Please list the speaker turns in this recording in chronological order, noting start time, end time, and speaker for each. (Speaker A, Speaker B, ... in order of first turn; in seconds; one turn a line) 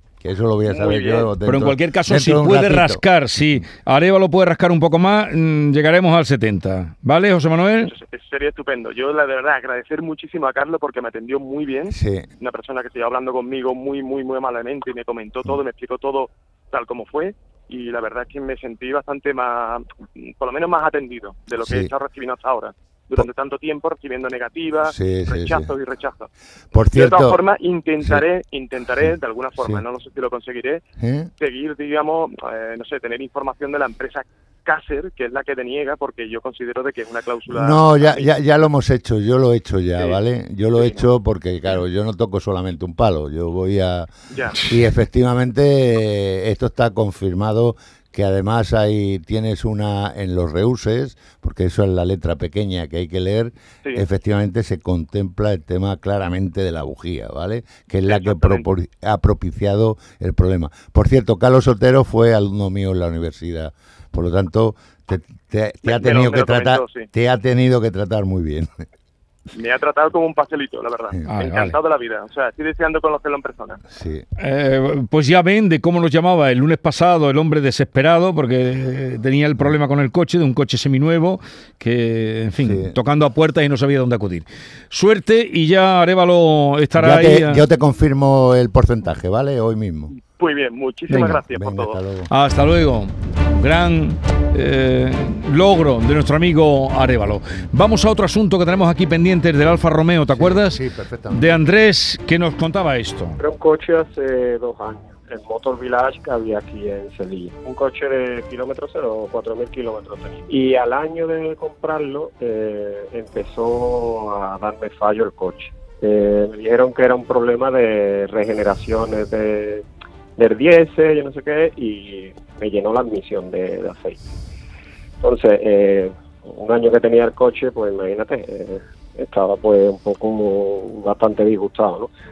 Speaker A: 0.2-3.0
Speaker B: 0.7-1.3
Speaker C: 1.4-7.9
Speaker B: 7.8-26.3
Speaker A: 11.9-12.3
Speaker A: 21.6-21.9
Speaker A: 24.8-25.7
Speaker A: 26.7-27.4
Speaker B: 26.9-30.8
Speaker A: 29.6-29.8
Speaker A: 31.0-31.3
Speaker B: 31.4-38.3
Speaker A: 37.5-68.7
Speaker B: 40.7-41.0
Speaker B: 44.3-44.6
Speaker B: 58.1-58.6
Speaker B: 65.8-67.1
Speaker B: 69.5-73.8
Speaker C: 71.3-71.8
Speaker A: 73.9-74.2
Speaker C: 74.4-87.6
Speaker A: 82.6-83.0
Speaker A: 86.9-90.1
Speaker B: 90.3-92.0
Speaker C: 91.1-91.4
Speaker A: 91.3-92.3
Speaker C: 92.3-103.4
Speaker A: 100.3-101.6
Speaker D: 103.4-119.8
Speaker D: 120.4-124.2
Speaker D: 125.2-132.1